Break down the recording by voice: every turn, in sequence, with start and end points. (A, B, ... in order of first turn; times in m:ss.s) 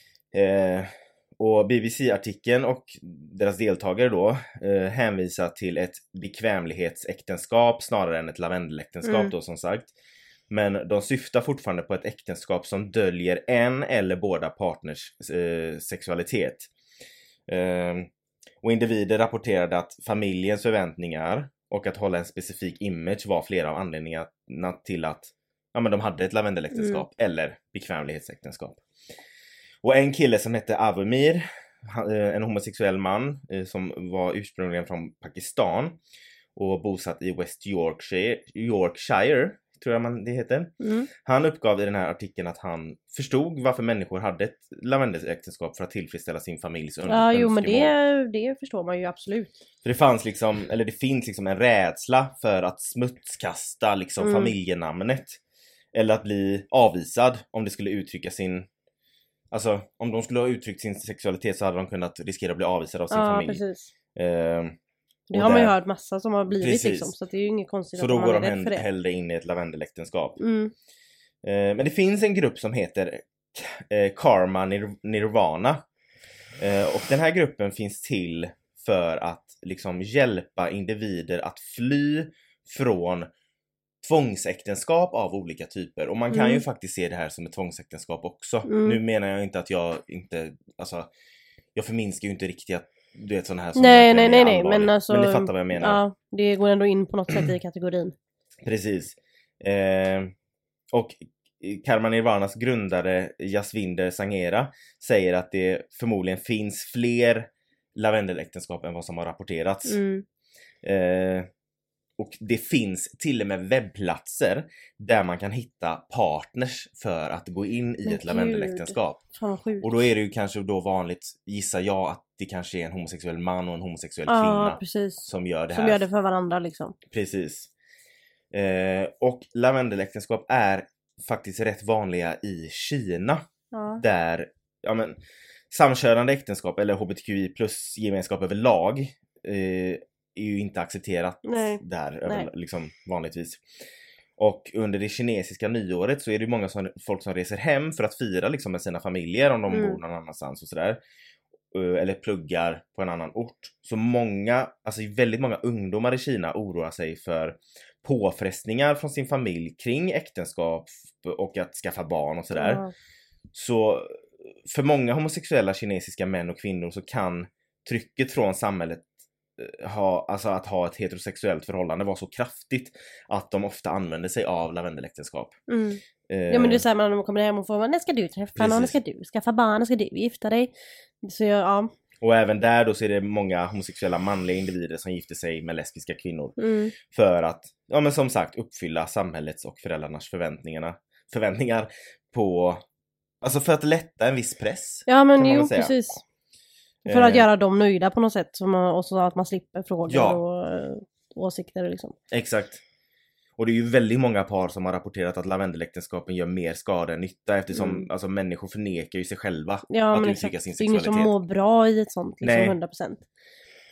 0:00.3-0:09.9 A
0:09.0-0:09.3 B
0:10.5-0:16.7 A
0:17.5-0:18.1 A
0:18.6-0:28.8 A
0:26.7-0:27.0 B
0:29.8-0:36.0 A
0:36.6-0:47.9 A
0:40.8-0:41.1 B
0:47.1-0:49.5 B
0:49.8-0:55.4 A
0:54.2-0:54.5 B
0:55.9-0:58.7 A
0:59.5-1:03.6 A
1:03.1-1:03.9 B
1:04.1-1:04.7 A
1:05.3-1:08.8 B
1:05.3-1:05.7 A
1:06.6-1:07.1 A
1:08.0-1:10.4 A
1:10.4-1:10.7 B
1:11.4-1:15.8 A
1:16.6-1:23.3 A
1:24.0-1:31.1 A
1:26.3-1:26.6 B
1:28.6-1:29.0 B
1:31.7-1:36.0 A
1:33.8-1:38.1 B
1:38.6-1:40.3 A
1:40.9-1:50.0 A
1:49.8-1:50.2 B
1:50.8-1:51.5 A
1:52.2-1:59.2 A
1:58.0-1:59.9 B
1:59.8-2:06.0 A
2:04.3-2:06.9 B
2:07.1-2:07.7 A
2:08.5-2:13.4 A
2:13.7-2:14.0 B
2:14.0-2:15.2 A
2:15.7-2:23.6 A
2:21.4-2:22.5 B
2:24.4-2:31.0 A
2:29.7-2:30.0 B
2:31.7-2:42.8 A
2:42.5-2:42.9 B
2:43.5-2:49.0 A
2:49.6-2:55.6 A
2:55.7-3:01.9 B
2:56.3-2:56.8 A
2:58.6-2:59.0 A
3:02.2-3:12.8 A
3:06.6-3:06.9 B
3:13.4-3:15.9 A
3:15.1-3:16.2 B
3:17.0-3:22.1 B
3:17.1-3:17.5 A
3:20.1-3:20.4 A
3:22.3-3:22.8 A
3:23.6-3:31.3 A
3:27.7-3:28.1 B
3:29.9-3:33.2 B
3:32.4-3:32.8 A